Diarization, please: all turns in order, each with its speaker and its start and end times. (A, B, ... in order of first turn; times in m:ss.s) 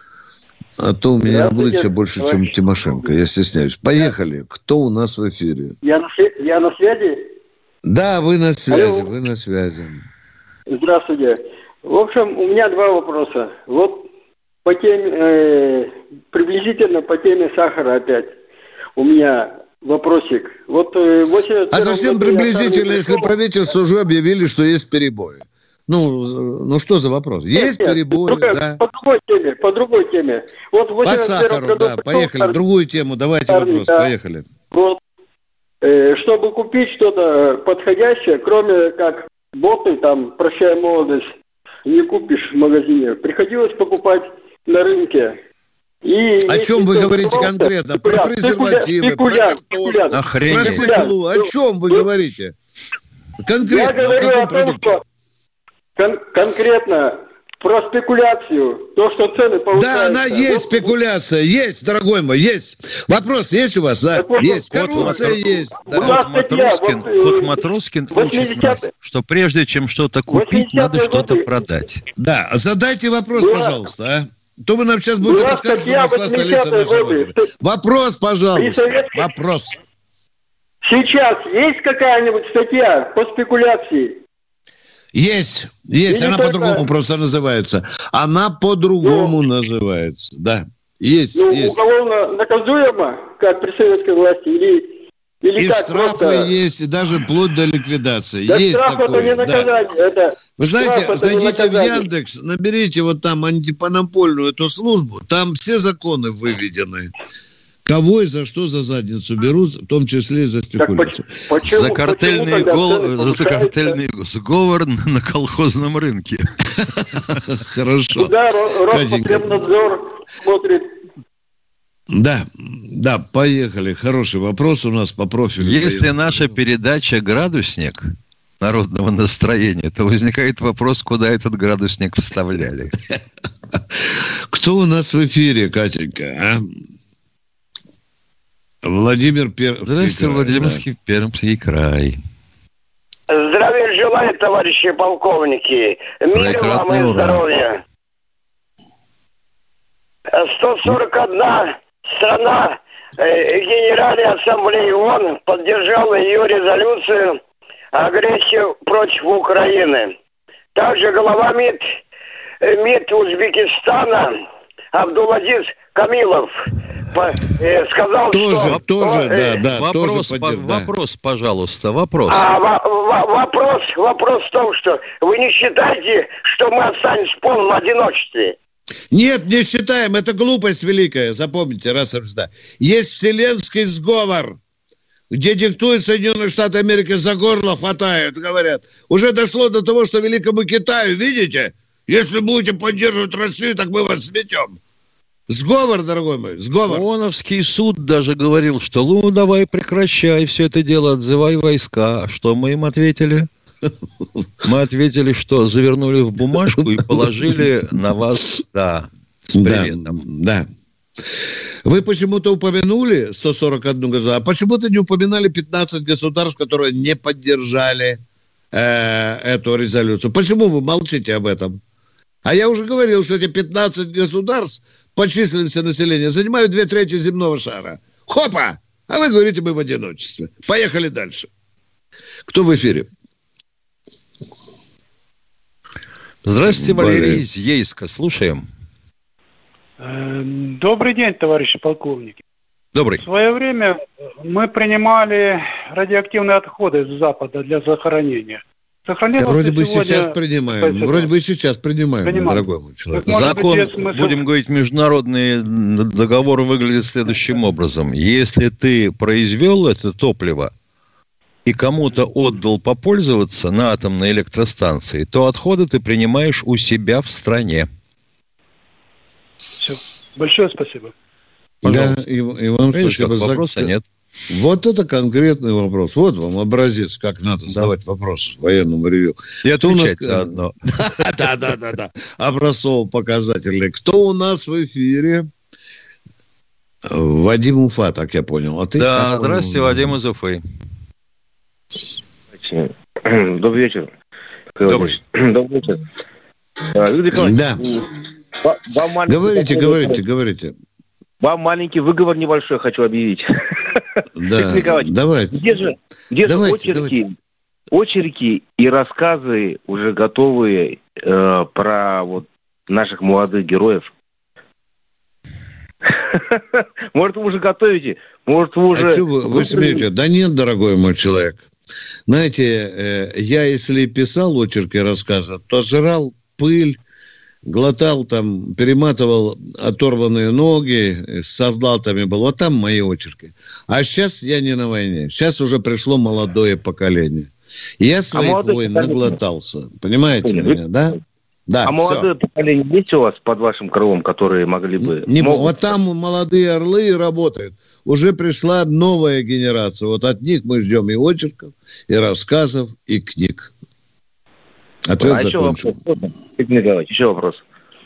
0:00.8-0:05.8 A
0:01.2-0:03.2 B
0:05.8-0:07.2 B
0:07.8-0:10.0 A
0:08.7-0:09.1 B
0:10.7-0:14.1 B
0:14.6-0:18.3 B
0:19.0-0:23.3 B
0:21.7-0:28.8 A
0:27.5-0:32.6 B
0:31.0-0:34.5 A
0:33.5-0:34.1 B
0:34.7-0:35.0 B
0:35.8-0:41.3 B
0:41.9-0:45.4 B
0:46.0-0:52.0 B
0:46.5-0:52.6 A
0:50.1-0:51.1 C
0:53.4-0:55.0 A
0:53.6-0:55.0 B
0:56.0-1:00.9 B
0:59.7-1:06.2 A
1:04.2-1:08.9 B
1:04.7-1:12.0 C
1:10.3-1:11.5 B
1:12.2-1:19.8 A
1:13.4-1:13.8 B
1:15.2-1:17.5 B
1:18.6-1:19.3 B
1:20.8-1:24.2 B
1:25.1-1:31.8 A
1:26.1-1:26.9 B
1:29.0-1:29.3 B
1:31.4-1:34.9 B
1:35.4-1:36.5 B
1:35.6-1:39.7 A
1:38.5-1:42.1 B
1:40.6-1:47.1 A
1:47.8-1:51.4 A
1:50.8-1:54.0 B
1:51.6-1:56.5 C
1:57.5-1:58.3 A
1:58.2-2:00.9 B
1:58.9-1:59.7 A
2:02.1-2:06.6 A
2:05.6-2:13.0 C
2:14.0-2:16.7 A
2:18.8-2:20.8 A
2:19.9-2:22.2 C
2:23.3-2:27.8 D
2:26.3-2:27.4 C
2:30.3-2:37.4 D
2:37.9-2:40.1 D
2:40.8-2:41.8 D
2:42.6-2:44.3 D
2:44.9-2:46.5 D
2:47.1-2:49.6 D
2:48.3-2:50.9 A
2:49.7-2:52.5 C
2:52.3-2:58.6 D
2:59.1-3:04.6 A
3:05.3-3:14.8 A
3:15.5-3:17.0 A
3:16.9-3:23.5 C
3:24.6-3:30.2 C
3:26.7-3:27.5 A
3:29.6-3:30.7 A
3:31.8-3:38.2 A
3:38.7-3:41.8 A
3:42.4-3:51.5 A
3:52.5-3:53.1 A
3:56.4-3:58.7 C
3:56.6-3:57.4 A
4:00.0-4:02.4 E
4:02.9-4:03.2 C
4:03.2-4:11.3 E
4:09.4-4:13.5 A
4:12.2-4:14.5 E
4:13.2-4:20.7 C
4:21.7-4:27.9 C
4:29.8-4:31.1 E
4:31.8-4:33.9 A
4:31.8-4:32.2 C
4:32.9-4:34.0 C
4:34.5-4:45.5 A
4:39.6-4:40.8 C
4:47.0-4:50.2 A
4:49.0-4:50.6 C
4:52.5-4:54.1 F
4:54.8-4:56.0 F
4:56.9-4:58.1 F
4:57.4-4:57.8 A
4:58.6-5:00.2 F
4:59.3-5:00.7 A
5:01.4-5:07.3 F
5:04.4-5:05.6 A
5:06.4-5:07.2 A
5:07.9-5:14.1 F
5:16.1-5:20.1 F
5:18.9-5:21.7 A
5:22.3-5:27.0 A
5:27.6-5:41.2 A
5:38.3-5:39.4 F
5:40.3-5:40.8 F
5:41.7-5:42.3 A
5:41.8-5:45.9 F
5:45.0-5:53.7 A
5:55.1-5:55.9 A
5:55.2-5:57.6 F